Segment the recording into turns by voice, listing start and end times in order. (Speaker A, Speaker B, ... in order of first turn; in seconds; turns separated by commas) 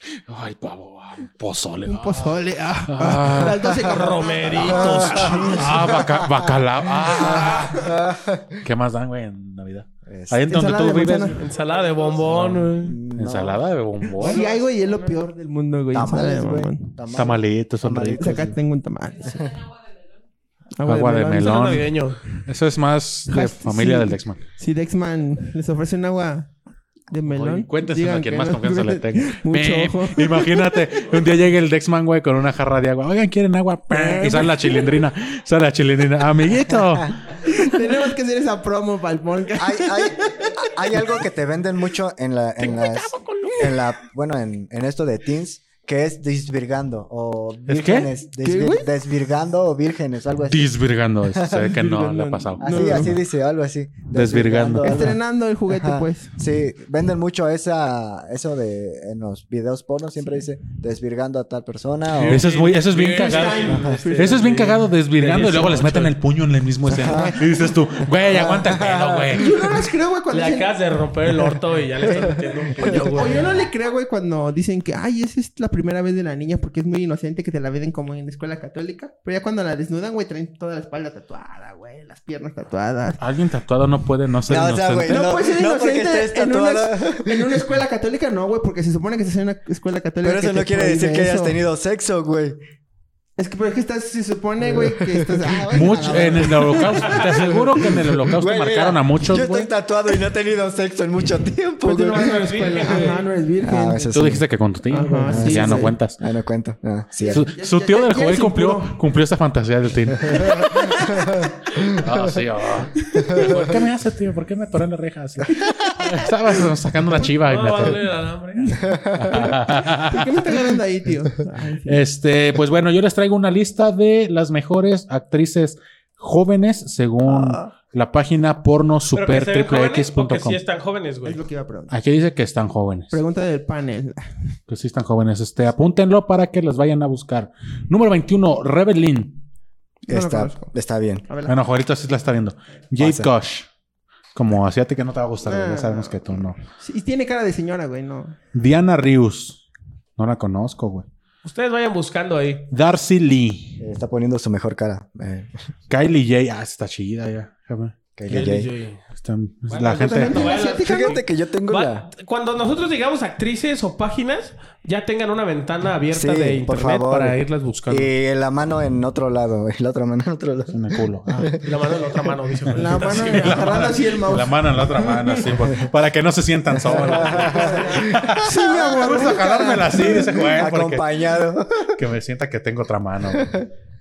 Speaker A: 0.3-2.4, Speaker B: 1.9-6.0, Speaker A: 2.9-3.9, Speaker C: 3.9-5.6, Speaker A: 4.8-8.0, Speaker D: 4.8-8.6, Speaker B: 7.2-7.8, Speaker A: 8.6-11.4, Speaker D: 10.1-10.5, Speaker B: 10.5-11.4, Speaker C: 11.3-13.0, Speaker D: 11.8-13.6, Speaker A: 13.1-14.4, Speaker C: 14.2-15.0, Speaker B: 14.2-17.0, Speaker D: 15.9-18.6, Speaker A: 17.1-18.4, Speaker B: 18.2-19.6, Speaker B: 20.8-21.7, Speaker A: 20.9-24.4, Speaker C: 21.4-22.2, Speaker B: 23.3-26.5, Speaker B: 27.1-31.0, Speaker A: 27.3-37.2, Speaker B: 33.9-35.0, Speaker D: 36.7-37.2, Speaker B: 37.4-40.7, Speaker D: 39.6-50.7, Speaker C: 42.6-43.9, Speaker A: 47.7-48.1, Speaker B: 48.4-48.9, Speaker A: 50.5-53.1, Speaker D: 51.2-51.9, Speaker B: 51.7-53.2, Speaker D: 52.6-62.5, Speaker A: 54.1-55.1, Speaker B: 54.8-56.4, Speaker C: 62.1-66.1, Speaker A: 62.3-69.6, Speaker B: 63.2-64.7, Speaker D: 63.7-64.0, Speaker D: 66.9-69.8, Speaker B: 67.0-67.4, Speaker B: 69.4-70.8, Speaker C: 70.3-73.6, Speaker D: 72.0-73.5, Speaker B: 72.8-83.2, Speaker A: 83.2-85.2, Speaker D: 84.5-87.7, Speaker B: 85.1-91.6, Speaker D: 90.2-92.6, Speaker B: 93.4-97.8, Speaker D: 94.6-96.2, Speaker A: 95.7-99.7, Speaker D: 97.2-102.4, Speaker B: 101.8-104.1, Speaker C: 102.0-103.2, Speaker D: 103.6-104.5, Speaker A: 104.1-106.2, Speaker B: 104.9-106.0, Speaker D: 105.2-107.5, Speaker B: 107.2-109.0, Speaker A: 107.3-110.7, Speaker B: 110.3-111.5, Speaker D: 110.3-112.5, Speaker A: 111.8-118.0, Speaker B: 113.1-113.5, Speaker D: 113.2-113.7, Speaker C: 117.2-118.9, Speaker D: 118.8-119.5, Speaker A: 119.1-120.7, Speaker B: 119.3-122.0, Speaker A: 121.9-130.6, Speaker B: 127.3-127.7, Speaker C: 129.1-131.4, Speaker B: 131.2-131.9, Speaker A: 131.9-133.1, Speaker B: 133.1-134.2, Speaker A: 134.7-139.4, Speaker B: 140.1-140.7, Speaker D: 140.1-141.2, Speaker B: 141.3-141.6, Speaker A: 141.5-143.7, Speaker D: 143.0-143.3, Speaker A: 144.3-146.6, Speaker B: 145.4-148.4, Speaker A: 148.5-149.6, Speaker A: 150.2-151.1, Speaker C: 151.4-152.7, Speaker A: 152.7-153.8, Speaker D: 153.8-155.5, Speaker A: 155.9-158.0, Speaker D: 158.2-158.7, Speaker C: 158.3-159.0, Speaker A: 159.1-160.4, Speaker C: 159.7-168.1, Speaker B: 159.8-161.2, Speaker D: 160.8-162.1, Speaker D: 166.1-170.8, Speaker A: 170.7-171.5, Speaker D: 171.3-172.3, Speaker C: 171.6-173.9, Speaker B: 172.7-175.5, Speaker A: 172.8-181.1, Speaker D: 176.7-178.7, Speaker C: 176.9-177.5, Speaker B: 177.4-180.6, Speaker D: 179.9-182.0, Speaker A: 181.9-183.6, Speaker D: 183.4-183.6